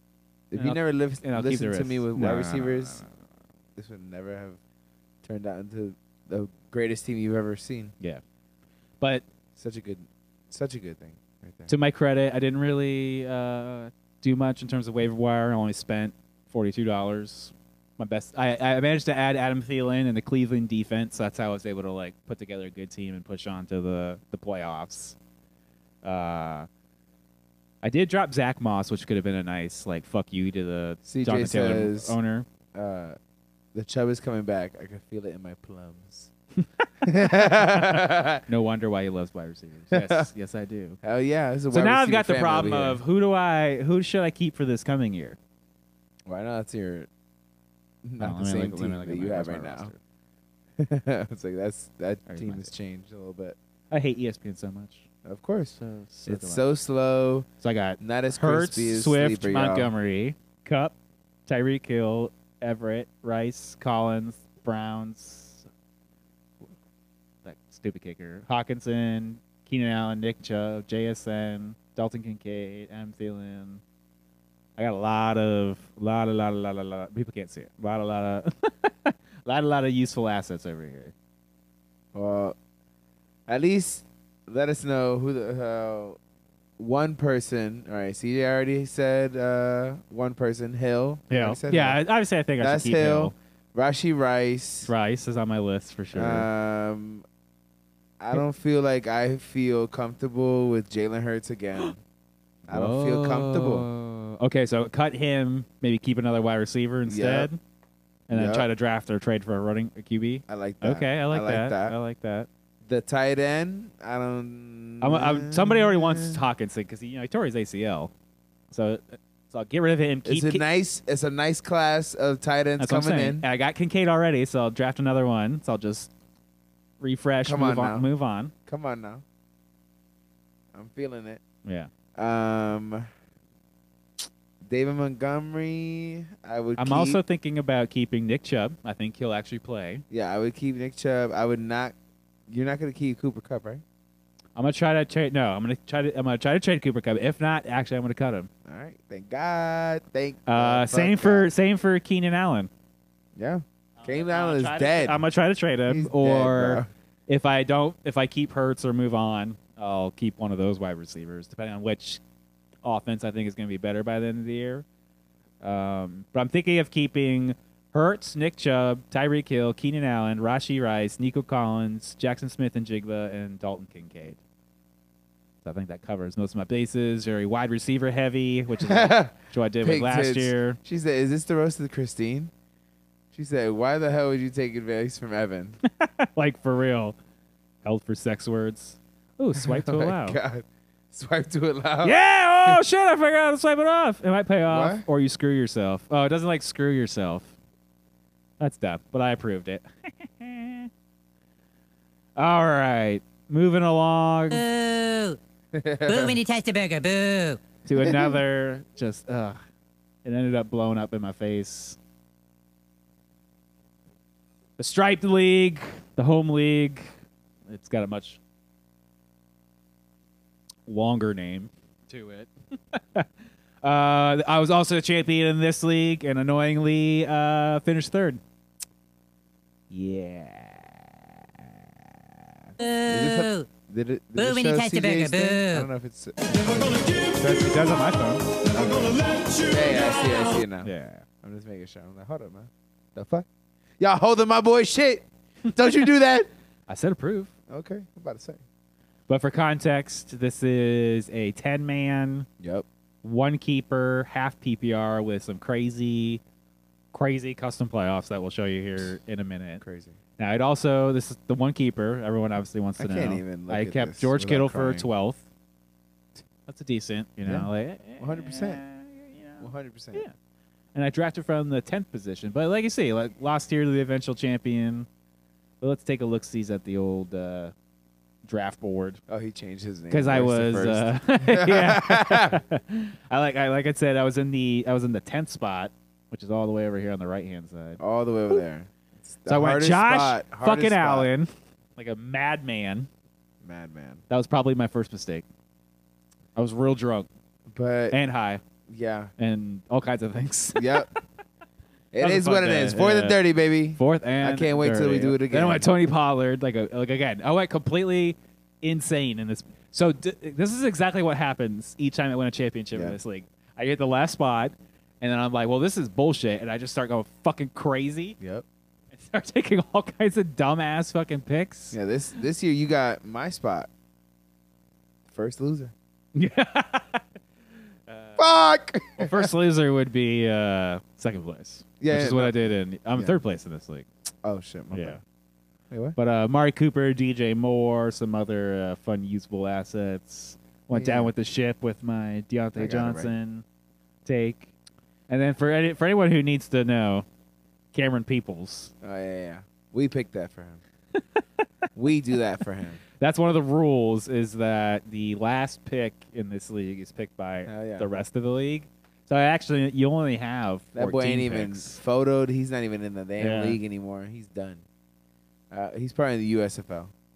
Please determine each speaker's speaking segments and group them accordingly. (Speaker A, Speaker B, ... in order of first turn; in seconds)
Speaker A: 0.5-3.0, 3.8-4.6, 5.2-7.9, 9.6-11.7, 31.1-32.1, 32.7-33.2, 33.7-36.3, 37.0-38.5, 39.9-40.3, 41.0-43.0, 46.3-47.1, 48.0-49.9, 50.8-53.6, 55.2-55.8, 56.3-57.5, 58.0-59.9, 82.1-82.6, 83.5-86.2, 86.8-92.0, 92.6-94.9, 96.1-97.2, 98.2-102.0, 102.7-103.9, 107.1-107.5, 108.3-108.7, 110.5-112.0, 112.9-116.4, 120.2-123.4, 127.4-128.1, 128.7-129.2, 130.7-131.4, 132.2-133.1, 134.7-137.2, 140.1-141.9, 142.5-143.8, 148.7-151.5, 153.4-155.2, 155.9-156.9, 178.8-182.5, 183.3-185.8, 189.6-192.8, 194.7-195.1, 205.7-206.4, 207.9-208.4, 233.1-237.3, 238.7-240.9, 241.4-243.5, 244.0-246.5, 247.7-248.6, 252.6-252.9, 259.8-260.2, 263.0-265.1, 268.2-268.8, 269.6-270.2, 279.3-282.6, 288.0-291.3, 293.6-294.2, 297.7-298.2, 298.9-299.3, 300.8-301.1, 302.1-305.9, 318.4-318.6, 321.9-323.9, 325.3-325.9, 328.4-329.5, 332.0-332.6, 334.4-335.2, 335.9-336.2, 340.9-341.3, 342.8-343.4, 349.0-350.8, 352.0-353.0, 357.7-358.1, 360.9-364.8, 365.7-367.1
Speaker B: 0.6-3.1, 9.0-9.3, 11.7-25.2, 26.0-26.7, 27.8-32.5, 37.0-41.0, 41.7-45.4, 48.2-50.0, 52.3-52.7, 53.9-55.1, 55.8-56.7, 57.6-61.0, 61.5-65.7, 67.4-73.8, 74.8-81.1, 91.3-93.3, 94.9-96.5, 102.7-107.6, 108.3-112.5, 115.0-118.1, 118.7-120.6, 122.8-126.1, 127.0-128.5, 131.7-131.9, 136.8-140.0, 144.6-148.5, 150.5-152.7, 154.0-162.2, 162.8-164.8, 165.6-174.4, 175.6-180.8, 185.8-187.2, 187.8-190.4, 192.0-197.5, 198.6-200.9, 202.4-204.6, 207.8-209.6, 210.2-212.0, 214.8-217.1, 217.7-218.4, 220.9-223.3, 223.8-228.4, 229.9-232.7, 237.3-238.5, 240.8-241.2, 246.9-247.5, 249.3-252.5, 253.2-256.4, 257.1-259.8, 260.4-265.5, 266.7-270.3, 270.9-275.1, 275.8-277.7, 278.5-279.2, 280.1-288.0, 289.5-293.1, 294.3-295.4, 296.6-297.3, 298.1-298.6, 299.4-301.2, 302.2-303.4, 303.9-318.4, 319.1-322.0, 326.4-327.3, 328.1-328.4, 329.2-334.1, 334.9-335.2, 336.2-343.6, 344.2-344.7, 345.3-347.3, 347.9-348.9, 353.2-362.0, 363.4-363.8
Speaker C: 204.5-205.4, 206.1-207.6, 232.8-233.7, 234.4-235.9